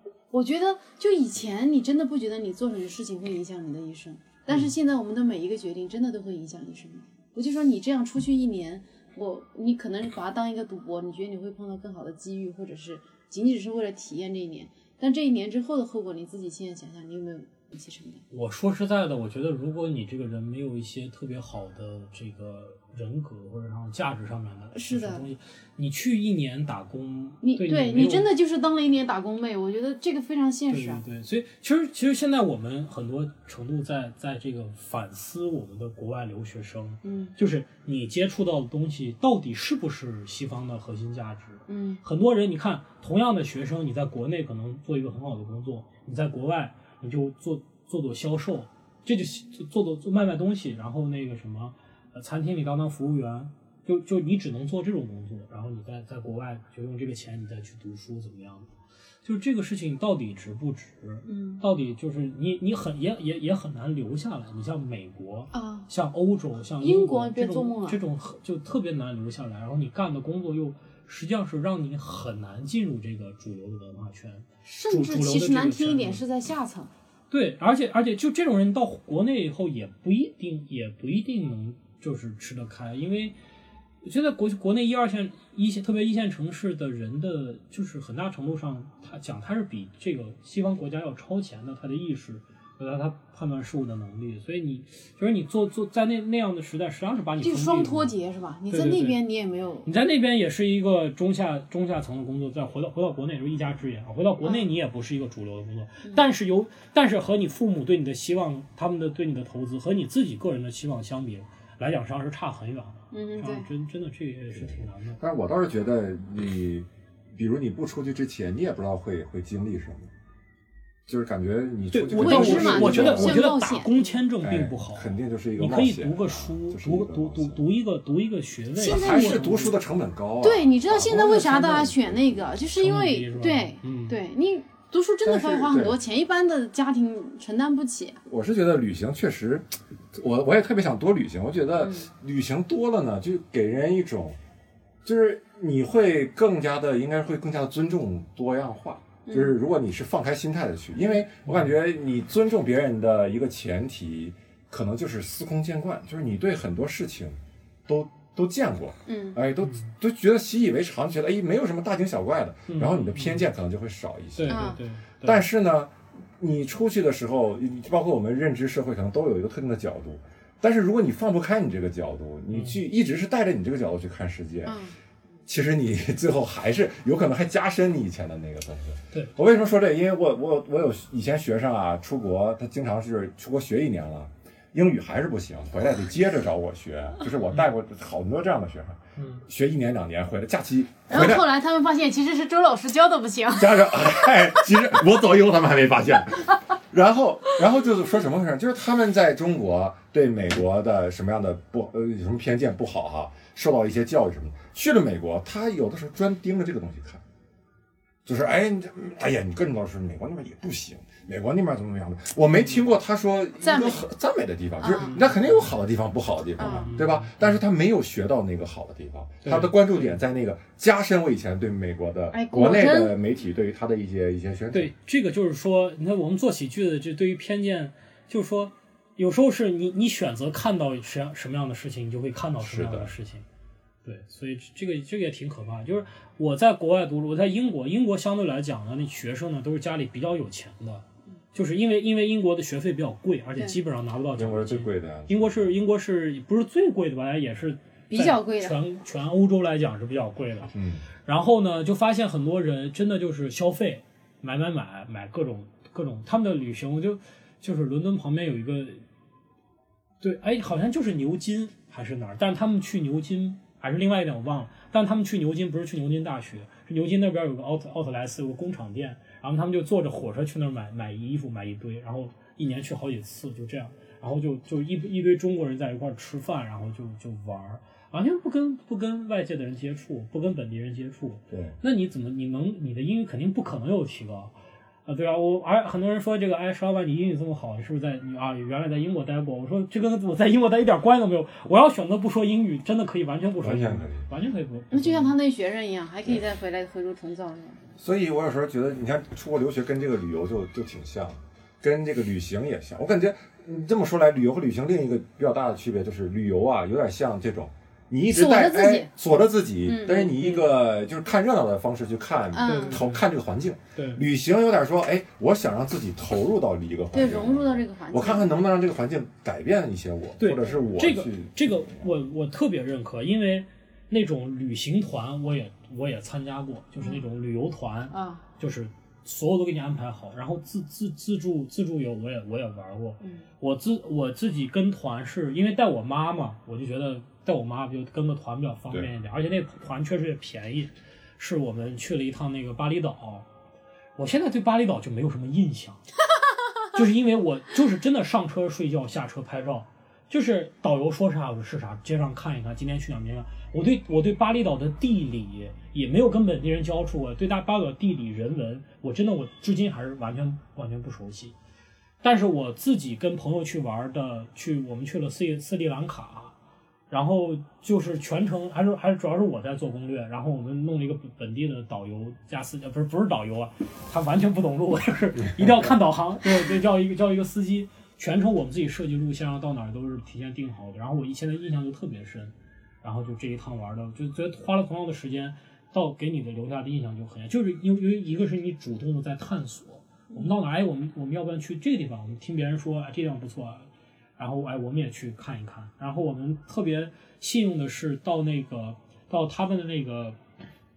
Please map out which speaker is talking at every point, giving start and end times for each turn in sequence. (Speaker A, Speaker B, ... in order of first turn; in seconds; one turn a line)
Speaker A: 0.3-18.2
Speaker B: 18.3-28.3
Speaker A: 24.7-25.2
Speaker A: 27.4-31.0
Speaker B: 30.7-58.7
Speaker A: 37.0-37.3
Speaker A: 41.7-42.0
Speaker B: 59.2-76.2
Speaker A: 61.2-61.6
Speaker A: 65.5-65.9
Speaker A: 66.8-68.0
Speaker A: 74.6-76.9
Speaker B: 77.3-83.3
Speaker B: 84.0-98.1
Speaker A: 97.4-99.9
Speaker B: 98.7-99.2
Speaker B: 99.8-115.2
Speaker A: 113.1-113.7
Speaker C: 114.5-120.1
Speaker C: 121.1-123.5
Speaker B: 121.9-129.7
Speaker A: 122.1-124.2
Speaker C: 124.4-127.6
Speaker A: 128.8-129.7
Speaker C: 128.8-132.5
Speaker A: 130.4-138.2
Speaker B: 132.8-134.2
Speaker C: 135.2-136.0
Speaker C: 138.3-144.4
Speaker A: 141.8-142.1
Speaker C: 145.0-174.8
Speaker A: 149.2-149.6
Speaker A: 159.1-159.4
Speaker B: 159.6-159.9
Speaker B: 162.7-163.4
Speaker B: 164.3-165.4
Speaker A: 164.5-164.8
Speaker B: 172.5-172.8
Speaker A: 174.7-174.9
Speaker C: 175.4-191.4
Speaker B: 189.2-189.4
Speaker A: 191.1-194.5
Speaker C: 193.6-207.2
Speaker C: 208.2-224.9
Speaker A: 213.6-214.0
Speaker A: 214.8-215.2
Speaker B: 215.1-215.5
Speaker A: 216.6-216.9
Speaker B: 216.7-217.6
Speaker B: 219.4-220.2
Speaker A: 222.3-223.1
Speaker B: 224.7-233.4
Speaker C: 232.6-233.1
Speaker B: 234.0-250.7
Speaker C: 244.3-245.7
Speaker A: 248.1-248.8
Speaker C: 250.7-251.0
Speaker B: 251.2-259.0
Speaker B: 260.2-284.5
Speaker C: 281.5-281.7
Speaker B: 285.1-295.3
Speaker C: 293.6-294.2
Speaker A: 294.9-297.8
Speaker C: 298.0-322.1
Speaker A: 308.3-309.1
Speaker A: 309.9-310.5
Speaker A: 312.5-313.0
Speaker B: 312.6-313.2
Speaker B: 313.9-314.2
Speaker A: 317.1-318.6
Speaker B: 320.4-343.5
Speaker A: 328.1-328.4
Speaker A: 333.2-333.5
Speaker B: 344.2-346.0
Speaker B: 346.9-361.5
Speaker B: 362.2-366.5
Speaker B: 367.1-400.4